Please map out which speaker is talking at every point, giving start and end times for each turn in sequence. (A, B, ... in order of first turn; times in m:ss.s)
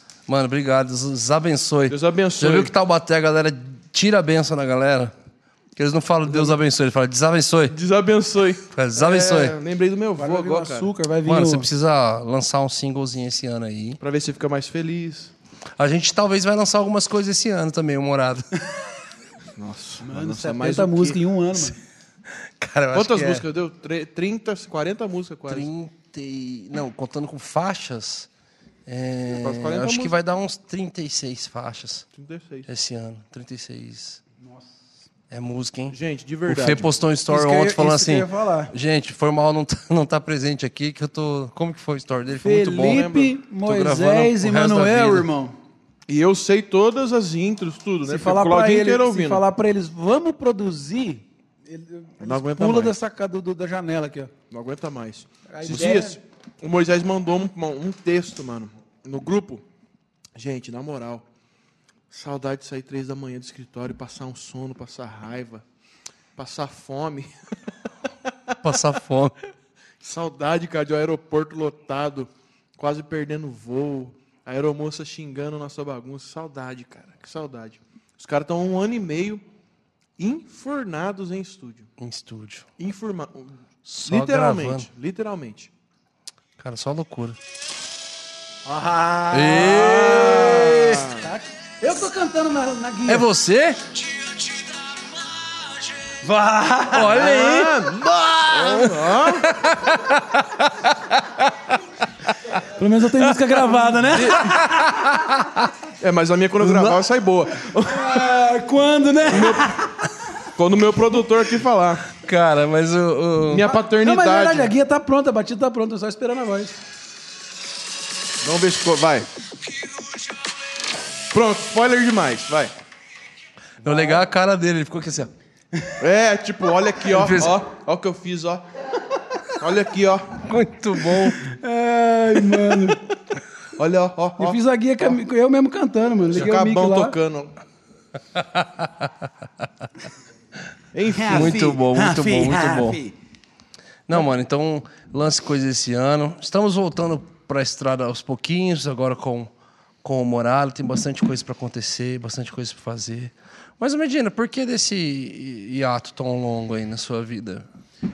0:00.3-0:05.1 A
0:01.9-0:02.7 B
0:05.8-0:07.8 A
0:07.7-0:10.9 B
0:08.7-0:09.6 A
0:10.2-0:11.7 C
0:11.2-0:14.0 A
0:14.0-0:15.3 B
0:15.8-0:18.8 A
0:19.6-0:21.2 B
0:20.0-0:21.8 C
0:22.3-0:23.4 A
0:22.9-0:25.7 B
0:25.5-0:28.3 A
0:28.8-0:32.0 A
0:29.3-0:30.1 B
0:32.1-0:32.7 B
0:32.7-0:34.2 A
0:34.4-0:34.7 C
0:35.3-0:43.1 A
0:35.9-0:37.0 B
0:37.3-0:38.7 C
0:42.4-0:45.6 C
0:42.8-0:43.3 B
0:43.6-0:45.3 A
0:46.1-0:49.4 B
0:48.0-0:54.3 C
0:52.2-0:52.9 B
0:54.5-0:59.6 B
0:55.5-0:56.2 C
1:00.3-1:01.2 B
1:02.1-1:05.6 B
1:06.4-1:07.3 B
1:08.6-1:09.3 A
1:10.0-1:19.4 B
1:20.2-1:21.9 B
1:22.0-1:22.7 A
1:22.8-1:23.5 B
1:23.8-1:24.9 A
1:24.0-1:25.7 B
1:26.6-1:27.4 A
1:28.6-1:33.3 C
1:29.3-1:31.0 A
1:29.6-1:31.3 B
1:33.0-1:34.0 A
1:36.2-1:37.4 C
1:36.9-1:41.6 A
1:37.1-1:39.7 B
1:42.5-1:45.1 C
1:44.1-1:44.7 B
1:44.2-1:45.7 A
1:46.0-1:48.3 B
1:46.6-1:47.0 A
1:47.8-1:50.5 C
1:49.3-1:49.8 B
1:50.5-1:52.1 B
1:52.1-1:53.7 A
1:53.5-1:54.7 B
1:53.7-1:56.8 C
1:58.4-1:59.3 B
2:01.3-2:02.7 B
2:03.8-2:05.3 A
2:05.7-2:06.0 C
2:06.0-2:08.7 B
2:07.1-2:07.6 A
2:09.6-2:10.4 B
2:10.4-2:11.4 A
2:11.1-2:13.0 C
2:13.8-2:15.1 B
2:14.4-2:17.2 C
2:16.3-2:17.5 B
2:18.3-2:19.3 A
2:20.9-2:21.7 B
2:21.1-2:23.2 C
2:21.3-2:23.0 A
2:24.1-2:29.5 A
2:30.0-2:37.7 A